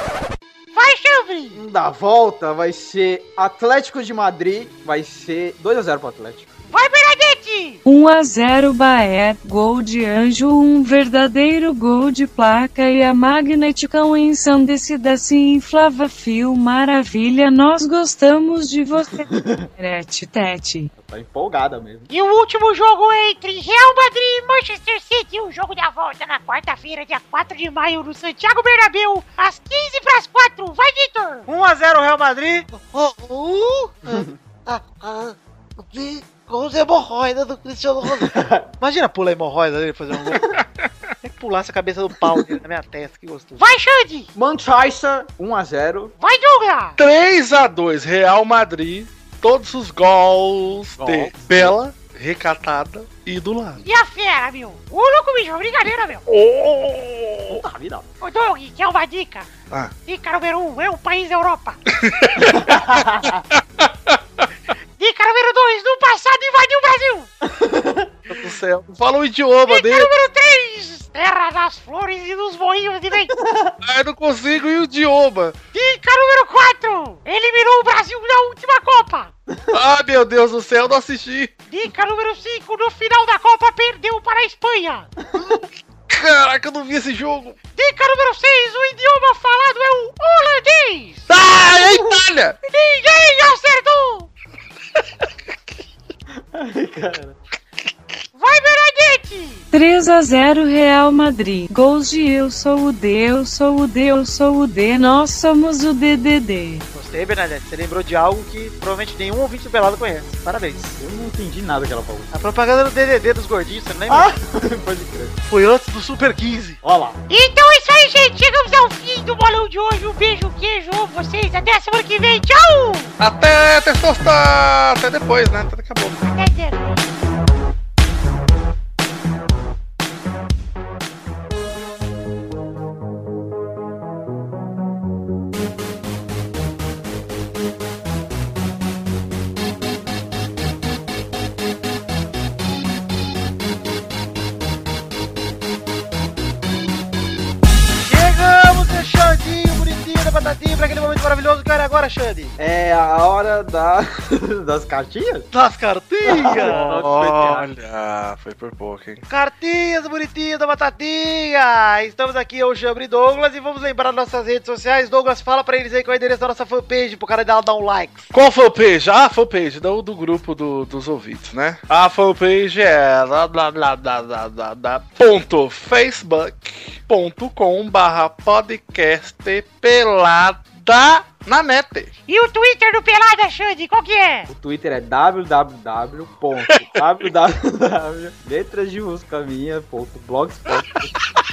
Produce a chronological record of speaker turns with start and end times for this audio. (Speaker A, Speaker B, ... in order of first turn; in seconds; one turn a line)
Speaker A: 0.7-1.6
Speaker B: 1.5-6.5
Speaker A: 6.7-7.8
Speaker C: 7.8-20.9
Speaker B: 19.2-19.7
Speaker B: 20.9-22.1
Speaker A: 22.1-31.5
Speaker D: 31.5-32.7
Speaker E: 32.7-38.1
Speaker B: 34.1-34.3
Speaker B: 38.0-38.7
Speaker D: 38.8-40.5
Speaker D: 41.2-43.6
Speaker A: 43.6-44.3
Speaker B: 44.3-46.1
Speaker A: 46.2-47.0
Speaker F: 47.0-53.8
Speaker B: 51.0-51.8
Speaker A: 53.8-56.2
Speaker F: 56.3-57.6
Speaker B: 57.5-58.1
Speaker A: 58.2-59.5
Speaker A: 60.0-61.8
Speaker F: 61.9-64.2
Speaker B: 62.4-63.4
Speaker A: 65.0-67.3
Speaker B: 67.4-68.1
Speaker F: 68.3-70.1
Speaker A: 69.7-73.3
Speaker B: 73.3-73.8
Speaker F: 73.8-75.6
Speaker A: 75.7-79.3
Speaker F: 79.7-81.5
Speaker A: 81.7-85.1
Speaker B: 85.3-85.6
Speaker F: 86.1-87.6
Speaker A: 87.7-91.3
Speaker F: 91.3-92.6
Speaker B: 91.8-92.1
Speaker A: 92.6-94.3
Speaker B: 96.5-97.4
Speaker A: 98.3-99.6
Speaker C: 99.7-106.8
Speaker D: 106.9-111.0
Speaker B: 111.0-112.3
Speaker D: 112.3-114.3
Speaker B: 114.1-115.3
Speaker D: 115.5-116.8
Speaker B: 116.8-117.2
Speaker A: 117.3-123.1
Speaker F: 123.2-126.3
Speaker A: 126.3-127.0
Speaker D: 148.0-152.5
Speaker B: 152.6-155.5
Speaker D: 155.5-157.0
Speaker B: 156.2-157.7
Speaker F: 156.6-159.2
Speaker D: 159.3-168.3
Speaker F: 168.3-182.1
Speaker A: 182.3-184.5
Speaker B: 184.5-191.2
Speaker F: 186.7-187.0